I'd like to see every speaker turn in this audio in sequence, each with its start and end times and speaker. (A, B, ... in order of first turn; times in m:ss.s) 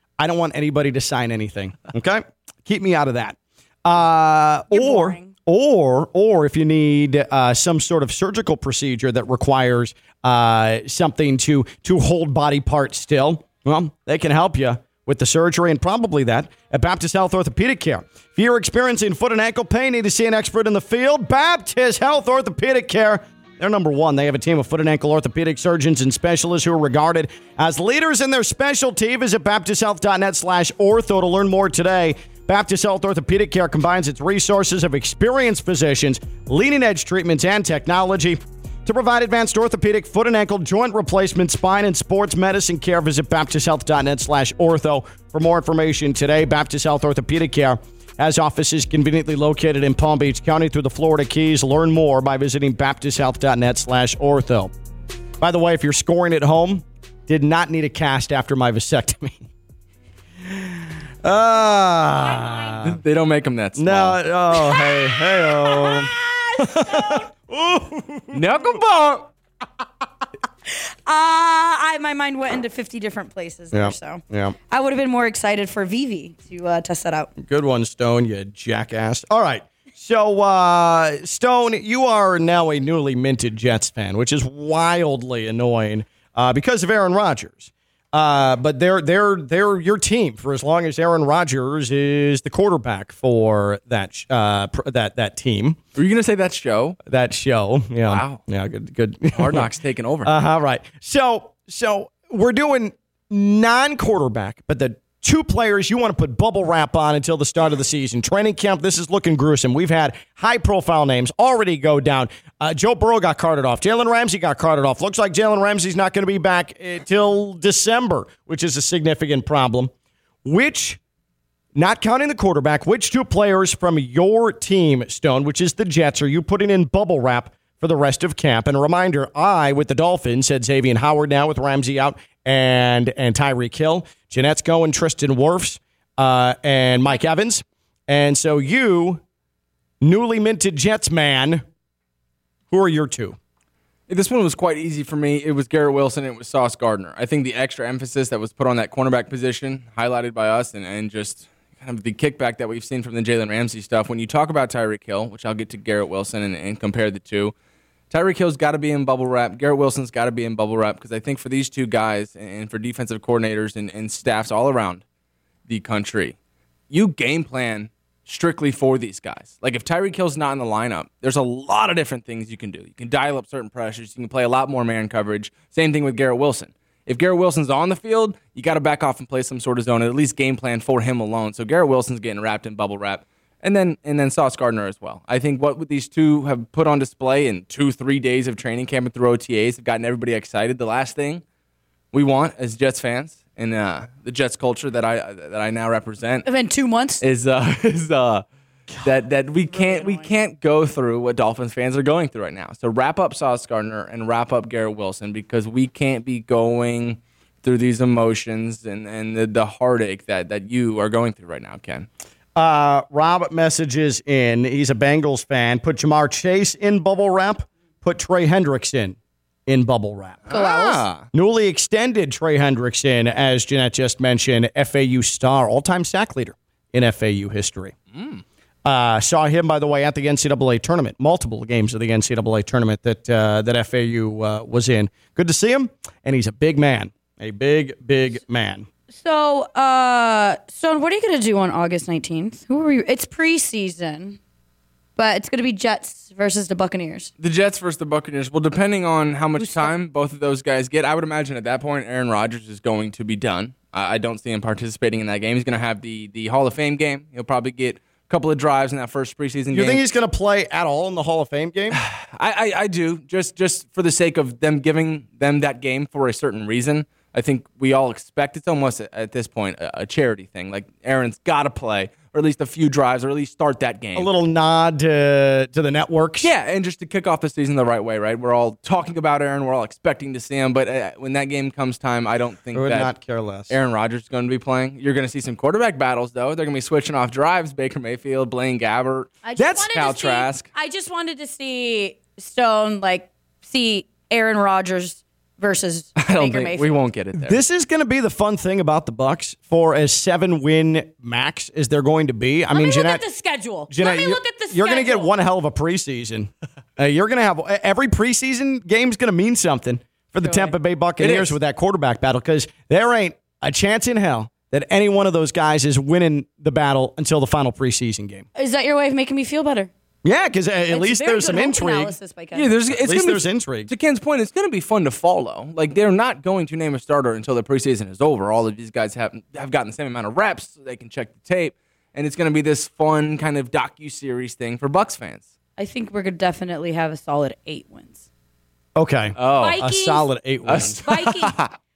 0:00.2-0:54.7 A
0:04.7-0:05.3 B
0:55.4-0:59.4 A
1:00.4-1:03.0 A
1:02.3-1:02.8 B
1:02.8-1:04.2 C
1:03.8-1:08.4 A
1:04.7-1:07.2 B
1:08.3-1:09.3 C
1:10.7-1:17.3 B
1:13.7-1:14.5 A
1:17.4-1:35.8 A
1:35.9-1:37.0 C
1:37.0-1:39.7 A
1:38.0-1:38.4 C
1:39.3-1:40.3 C
1:40.2-1:59.9 A
2:00.4-2:01.0 A
2:01.7-2:19.2 A
2:20.0-2:21.6 A
2:22.7-2:23.4 A
2:24.1-2:37.5 C
2:38.1-2:45.0 C
2:45.7-2:46.4 C
2:46.9-3:11.4 C
3:12.1-3:16.4 C
3:16.4-3:17.2 B
3:17.2-3:18.4 C
3:19.0-3:32.1 C
3:19.7-3:20.3 B
3:32.5-3:40.4 A
3:40.5-3:41.2 C
3:40.5-3:41.0 B
3:41.3-3:47.9 A
3:48.1-3:48.4 C
3:48.8-3:58.9 A
3:59.1-4:04.4 B
4:05.2-4:07.3 B
4:07.4-4:20.0 C
4:09.6-4:09.9 B
4:19.7-4:22.0 A
4:21.9-4:34.3 C
4:34.2-4:36.5 A
4:36.4-4:43.1 C
4:42.7-4:43.7 A
4:43.7-4:50.7 C
4:49.4-4:56.9 B
4:56.2-4:57.6 C
4:57.3-5:03.2 A
5:02.7-5:05.3 B
5:03.9-5:18.4 A
5:10.4-5:10.7 B
5:11.2-5:11.5 C
5:18.6-5:19.9 B
5:20.2-5:22.1 A
5:20.9-5:22.8 B
5:22.5-5:35.4 C
5:22.9-5:23.9 A
5:35.8-5:38.2 B
5:39.0-5:41.0 A
5:39.4-5:39.9 C
5:39.6-5:40.3 B
5:40.6-5:41.7 C
5:41.0-5:41.5 B